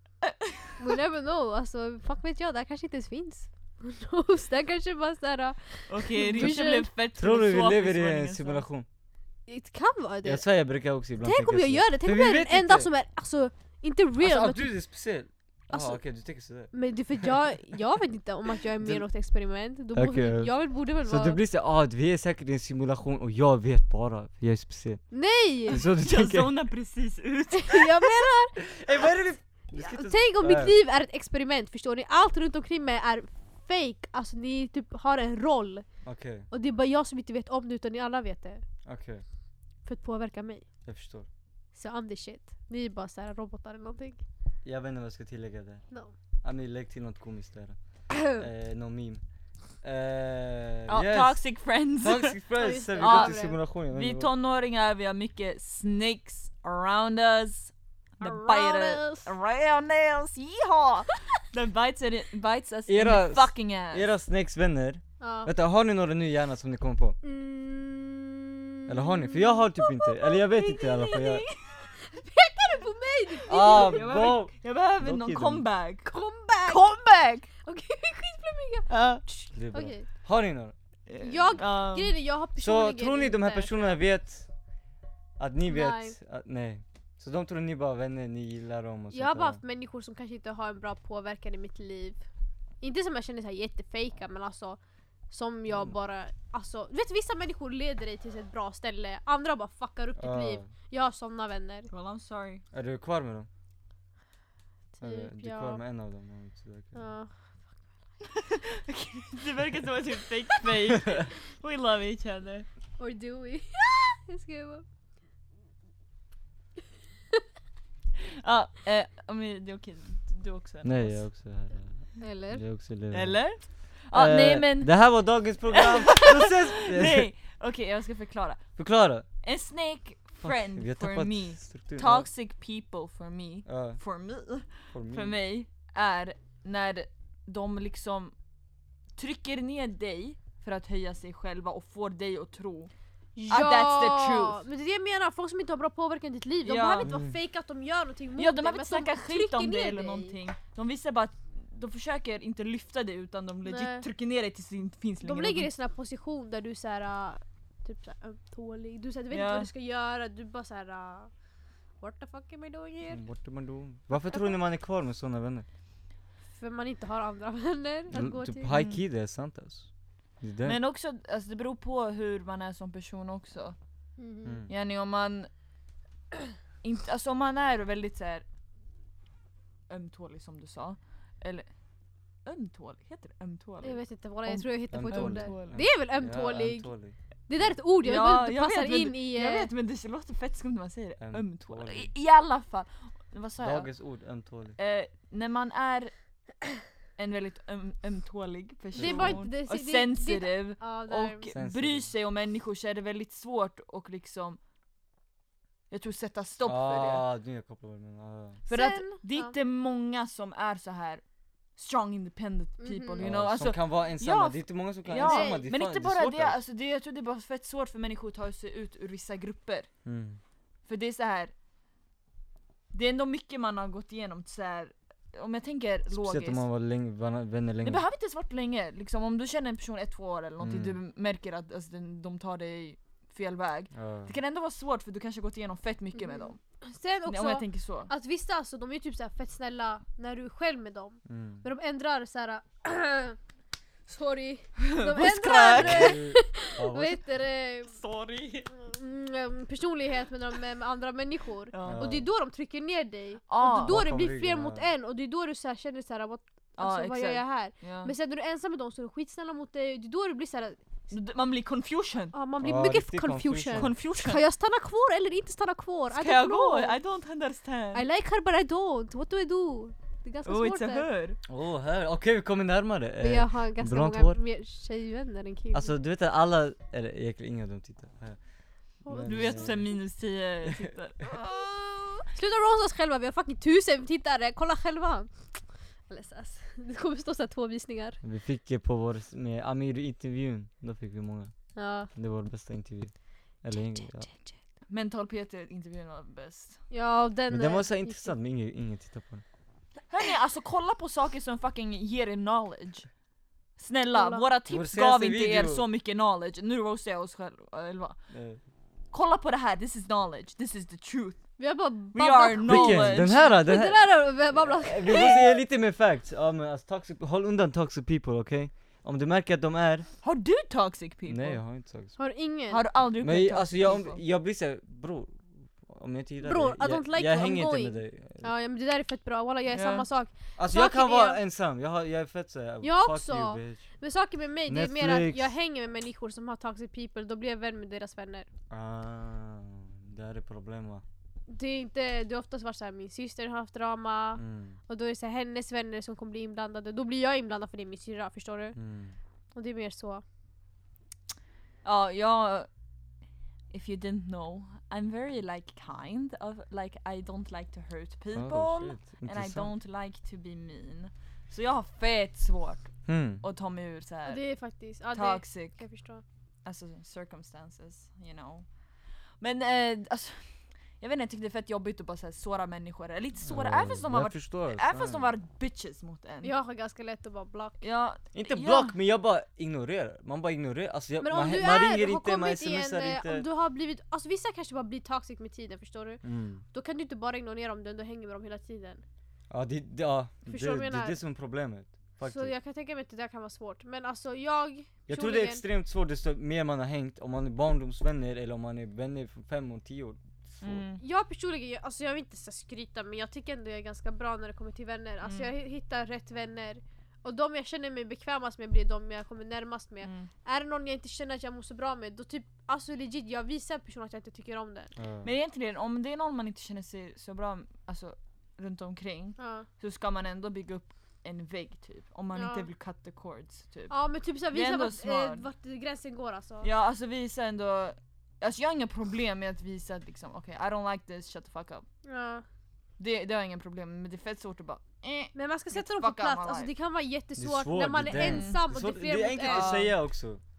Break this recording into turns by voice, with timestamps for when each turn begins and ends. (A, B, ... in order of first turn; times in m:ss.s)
0:00.8-0:06.9 A
0:05.9-0:08.6 B
0:07.1-0:08.9 C
0:09.5-0:10.4 A
0:10.2-0:12.9 C
0:11.2-0:14.7 A
0:14.2-0:16.7 C
0:15.7-0:16.0 A
0:16.7-0:21.4 A
0:19.9-0:26.5 C
0:25.1-0:25.8 A
0:25.7-0:28.1 B
0:27.5-0:28.6 A
0:28.6-0:30.7 C
0:29.7-0:35.9 A
0:36.0-0:36.5 C
0:36.5-0:38.6 A
0:38.8-0:39.2 C
0:39.8-0:40.6 A
0:40.8-0:41.3 C
0:41.7-0:44.2 A
0:44.6-0:45.8 C
0:46.4-0:49.2 C
0:48.1-0:48.4 A
0:49.8-0:54.3 C
0:50.9-0:52.4 B
0:52.6-0:53.6 A
0:53.0-1:04.1 B
0:58.2-0:59.3 A
1:02.9-1:07.2 C
1:05.2-1:05.5 A
1:07.2-1:14.1 A
1:08.9-1:11.4 C
1:13.5-1:16.1 B
1:13.5-1:15.7 C
1:16.0-1:16.9 A
1:16.6-1:17.5 B
1:17.6-1:20.1 A
1:18.9-1:19.2 B
1:19.5-1:20.7 C
1:21.1-1:22.2 B
1:21.2-1:24.0 A
1:22.6-1:24.5 C
1:25.4-1:29.6 C
1:25.6-1:26.2 A
1:29.1-1:32.2 A
1:32.8-1:34.8 A
1:35.3-1:41.9 A
1:35.7-1:35.9 C
1:40.2-1:40.7 C
1:41.9-1:42.6 B
1:42.7-1:43.5 C
1:44.9-1:45.8 A
1:45.0-1:47.0 C
1:46.9-1:47.8 A
1:48.4-1:52.7 B
1:53.0-1:54.8 A
1:58.4-2:01.3 B
2:00.8-2:07.3 C
2:02.2-2:02.6 A
2:03.1-2:04.9 B
2:05.7-2:08.7 B
2:08.8-2:09.3 C
2:09.4-2:18.3 B
2:10.4-2:12.3 C
2:13.6-2:14.0 C
2:14.9-2:15.4 C
2:19.2-2:22.9 B
2:23.4-2:30.4 A
2:23.5-2:24.6 B
2:26.6-2:27.2 B
2:27.0-2:27.4 C
2:28.4-2:35.7 B
2:33.6-2:34.1 A
2:35.2-2:41.3 A
2:39.3-2:39.7 B
2:42.0-2:43.2 A
2:43.1-2:45.6 C
2:44.2-2:44.6 A
2:46.5-2:48.7 A
2:48.1-2:49.9 C
2:48.7-2:49.0 B
2:50.4-2:50.8 C
2:50.6-2:53.8 B
2:54.2-2:54.6 A
2:54.4-2:54.7 C
2:54.7-2:55.5 B
2:56.8-2:58.4 B
2:59.9-3:01.7 B
3:02.4-3:05.8 B
3:03.8-3:06.9 A
3:04.9-3:07.7 C
3:07.5-3:09.7 A
3:08.0-3:13.9 B
3:11.2-3:12.1 C
3:13.6-3:14.8 C
3:14.8-3:16.1 B
3:17.2-3:24.6 B
3:18.9-3:19.4 C
3:18.9-3:21.5 A
3:21.5-3:22.1 C
3:25.9-3:27.3 B
3:26.6-3:28.6 C
3:28.7-3:31.2 B
3:28.7-3:29.5 A
3:31.8-3:39.9 B
3:32.8-3:33.3 A
3:33.2-3:36.6 C
3:35.2-3:35.7 A
3:40.0-3:40.4 C
3:40.8-3:41.5 B
3:42.9-3:46.7 B
3:46.1-3:48.0 C
3:47.8-3:56.6 B
3:50.6-3:51.0 C
3:53.9-3:54.3 C
3:56.2-4:03.4 A
3:57.2-3:58.1 B
4:01.2-4:01.6 C
4:04.1-4:07.9 A
4:04.8-4:06.2 B
4:05.7-4:07.2 C
4:07.9-4:08.7 B
4:08.7-4:20.8 A
4:11.7-4:12.1 B
4:11.8-4:12.3 C
4:13.5-4:14.0 B
4:13.8-4:14.9 C
4:16.8-4:18.1 B
4:21.1-4:22.4 B
4:22.3-4:27.0 A
4:22.6-4:23.9 C
4:23.7-4:24.4 B
4:26.1-4:28.0 B
4:27.9-4:31.0 A
4:30.4-4:31.4 B
4:31.5-4:34.4 C
4:33.2-4:35.9 A
4:35.7-4:38.4 C
4:39.0-4:39.8 A
4:39.0-4:39.9 C
4:39.2-4:41.4 B
4:41.7-4:48.2 A
4:48.2-4:51.5 C
4:51.7-4:52.1 A
4:52.1-4:54.3 C
4:54.2-4:54.4 A
4:54.9-4:56.8 B
4:56.9-4:58.3 A
4:57.5-4:59.4 C
5:00.1-5:03.1 B
5:03.8-5:08.2 B
5:04.1-5:04.5 A
5:04.7-5:05.8 C
5:08.3-5:08.6 C
5:09.1-5:11.4 B
5:11.6-5:15.5 A
5:12.1-5:13.4 B
5:12.6-5:20.1 C
5:20.2-5:21.6 B
5:21.2-5:22.2 C
5:22.2-5:22.8 A
5:22.7-5:24.2 B
5:23.2-5:28.5 C
5:26.4-5:31.4 A
5:29.7-5:30.1 B
5:30.6-5:33.8 C
5:32.8-5:38.5 A
5:34.7-5:35.5 C
5:38.7-5:41.0 C
5:41.5-5:48.8 A
5:44.4-5:44.8 C
5:48.7-5:49.2 C
5:49.5-5:50.2 A
5:51.8-5:52.7 B
5:53.7-6:04.4 B
5:58.3-5:59.7 C
6:03.0-6:03.4 C
6:04.2-6:06.2 A
6:05.1-6:05.8 B
6:06.6-6:08.6 B
6:09.4-6:16.5 B
6:13.4-6:15.2 C
6:16.4-6:17.8 A
6:17.8-6:18.9 B
6:18.3-6:23.5 C
6:21.2-6:29.0 A
6:26.2-6:26.6 C
6:29.5-6:32.5 C
6:30.4-6:31.2 A
6:32.2-6:35.6 A
6:35.1-6:40.8 C
6:40.6-6:41.0 B
6:41.0-6:54.9 A
6:45.2-6:45.5 B
6:50.0-6:50.3 B
6:55.0-6:55.3 C
6:55.2-7:03.9 B
6:59.4-6:59.7 A
7:02.3-7:02.7 A
7:03.9-7:06.7 A
7:04.5-7:05.4 B
7:06.6-7:11.8 B
7:12.0-7:12.4 A
7:13.0-7:16.7 B
7:15.3-7:19.9 A
7:17.4-7:20.4 C
7:18.0-7:18.6 B
7:19.4-7:19.9 B